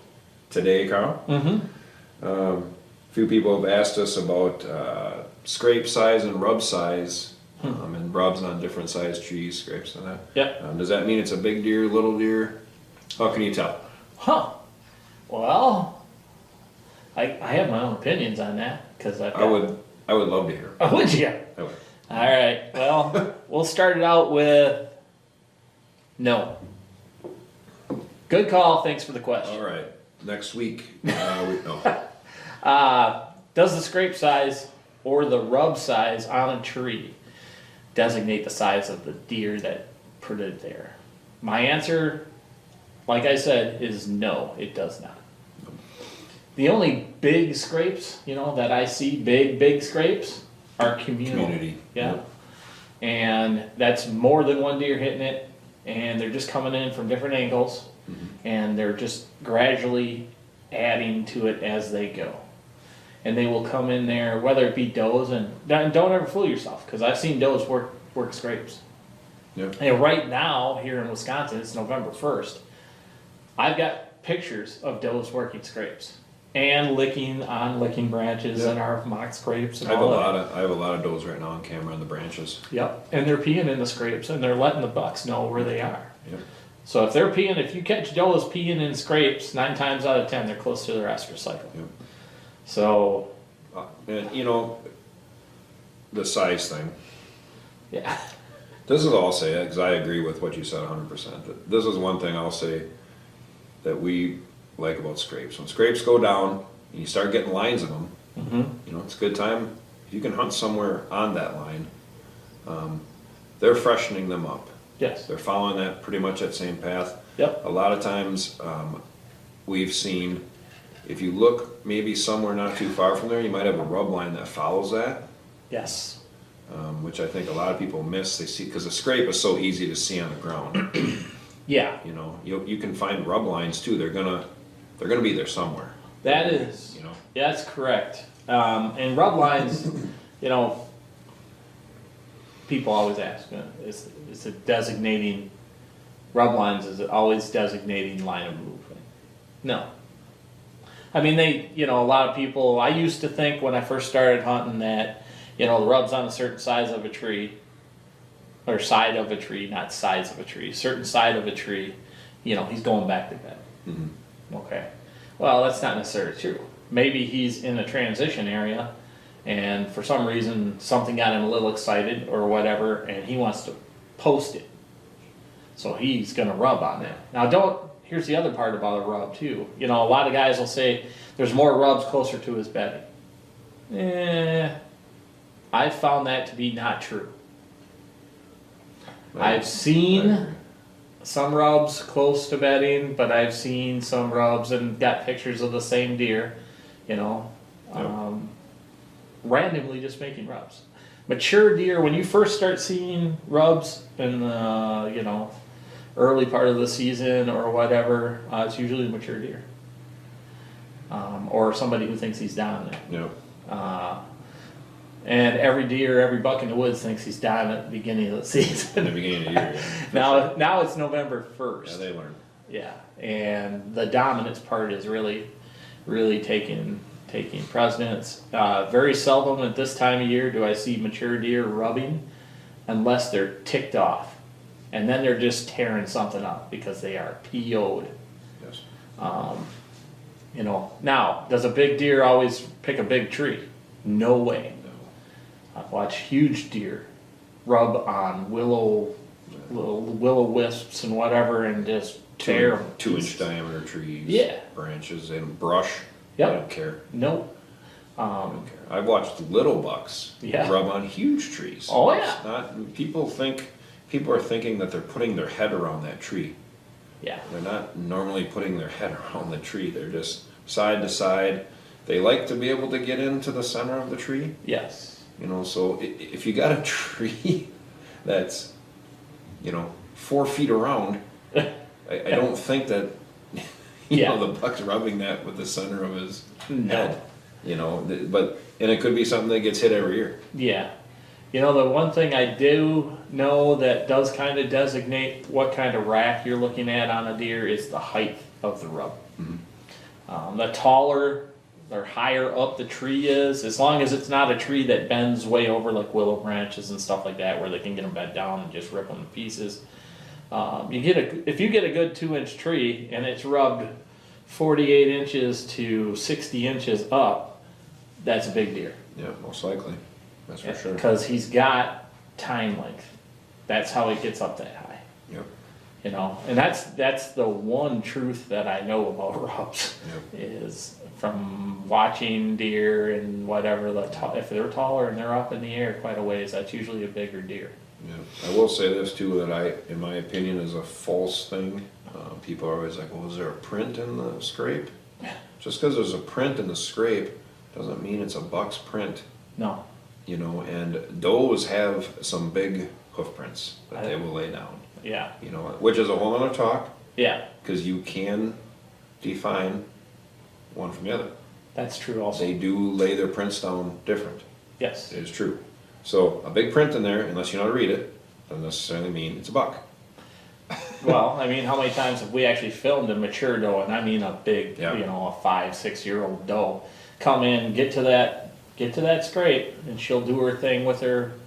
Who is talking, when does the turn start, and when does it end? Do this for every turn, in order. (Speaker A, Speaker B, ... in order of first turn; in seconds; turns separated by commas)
Speaker A: 0.5-1.2, Speaker B: 1.3-1.6, Speaker A: 2.2-12.6, Speaker A: 13.2-13.8, Speaker B: 14.2-14.5, Speaker B: 15.3-15.9, Speaker B: 17.1-19.6, Speaker A: 19.3-20.8, Speaker B: 20.8-21.4, Speaker B: 22.1-24.8, Speaker B: 26.2-26.5, Speaker B: 28.3-29.6, Speaker A: 29.4-31.9, Speaker B: 32.6-37.1, Speaker B: 37.9-42.2, Speaker B: 43.1-45.2, Speaker B: 46.5-52.2, Speaker A: 51.3-52.2, Speaker B: 53.0-57.9, Speaker B: 58.4-62.4, Speaker B: 63.2-68.8, Speaker B: 69.8-72.6, Speaker B: 73.6-80.3, Speaker A: 79.8-82.6, Speaker B: 82.7-86.1, Speaker B: 86.8-91.7, Speaker B: 92.7-93.2, Speaker A: 93.7-94.8, Speaker A: 96.1-96.9, Speaker B: 97.9-98.2, Speaker A: 98.9-102.8, Speaker A: 103.8-108.1, Speaker B: 108.3-108.7, Speaker A: 108.8-111.9, Speaker A: 112.7-113.0, Speaker A: 113.6-114.7, Speaker B: 115.0-115.3, Speaker A: 115.3-119.0, Speaker A: 119.7-120.4, Speaker A: 121.0-125.2, Speaker B: 125.7-126.2, Speaker A: 126.7-131.0, Speaker B: 131.7-132.0, Speaker A: 132.0-134.4, Speaker A: 135.0-137.2, Speaker B: 136.2-140.8, Speaker B: 142.7-145.5, Speaker B: 146.3-149.0, Speaker B: 151.1-157.5, Speaker B: 158.7-163.6, Speaker A: 163.8-164.1, Speaker B: 164.5-164.8, Speaker B: 165.4-168.9, Speaker B: 169.4-174.7, Speaker B: 175.8-183.0, Speaker B: 183.9-184.7, Speaker B: 185.7-187.3, Speaker A: 189.3-190.6, Speaker B: 189.4-190.4, Speaker B: 191.2-196.5, Speaker B: 197.1-198.5, Speaker B: 199.4-205.5, Speaker B: 206.2-209.6, Speaker B: 211.1-213.1, Speaker A: 213.1-213.3, Speaker B: 213.7-214.2, Speaker B: 215.2-222.0, Speaker A: 218.6-220.5, Speaker A: 221.8-222.4, Speaker B: 222.7-225.5, Speaker B: 226.1-232.2, Speaker B: 232.9-234.4, Speaker B: 234.9-238.1, Speaker B: 239.2-239.7, Speaker B: 240.5-244.8, Speaker A: 244.8-245.1, Speaker B: 245.8-247.1, Speaker B: 247.7-249.1, Speaker B: 249.7-253.4, Speaker A: 252.4-257.0, Speaker B: 254.2-254.6, Speaker B: 257.1-257.4, Speaker B: 258.2-258.6, Speaker A: 258.4-266.5, Speaker B: 260.4-260.7, Speaker B: 261.9-262.4, Speaker A: 267.5-274.5, Speaker B: 274.6-275.2, Speaker A: 275.4-277.7, Speaker A: 278.2-278.7, Speaker A: 279.6-281.2, Speaker A: 282.1-290.4, Speaker B: 284.1-284.4, Speaker B: 286.7-287.2, Speaker B: 290.5-290.9, Speaker B: 291.5-299.2, Speaker B: 300.3-309.8, Speaker B: 310.5-313.9, Speaker B: 314.5-317.6, Speaker B: 318.2-319.0, Speaker A: 319.1-321.0, Speaker B: 320.6-323.1, Speaker B: 323.7-325.0, Speaker B: 326.0-337.7, Speaker A: 338.0-344.9, Speaker A: 345.6-349.2, Speaker B: 349.6-349.8, Speaker A: 350.2-354.8, Speaker B: 355.0-355.3, Speaker A: 355.4-356.9, Speaker B: 357.1-357.4, Speaker A: 357.6-358.6, Speaker A: 359.2-359.8, Speaker A: 360.7-361.3, Speaker B: 361.7-362.5, Speaker A: 362.3-364.4, Speaker B: 364.8-365.1, Speaker A: 365.1-369.8, Speaker B: 371.0-381.3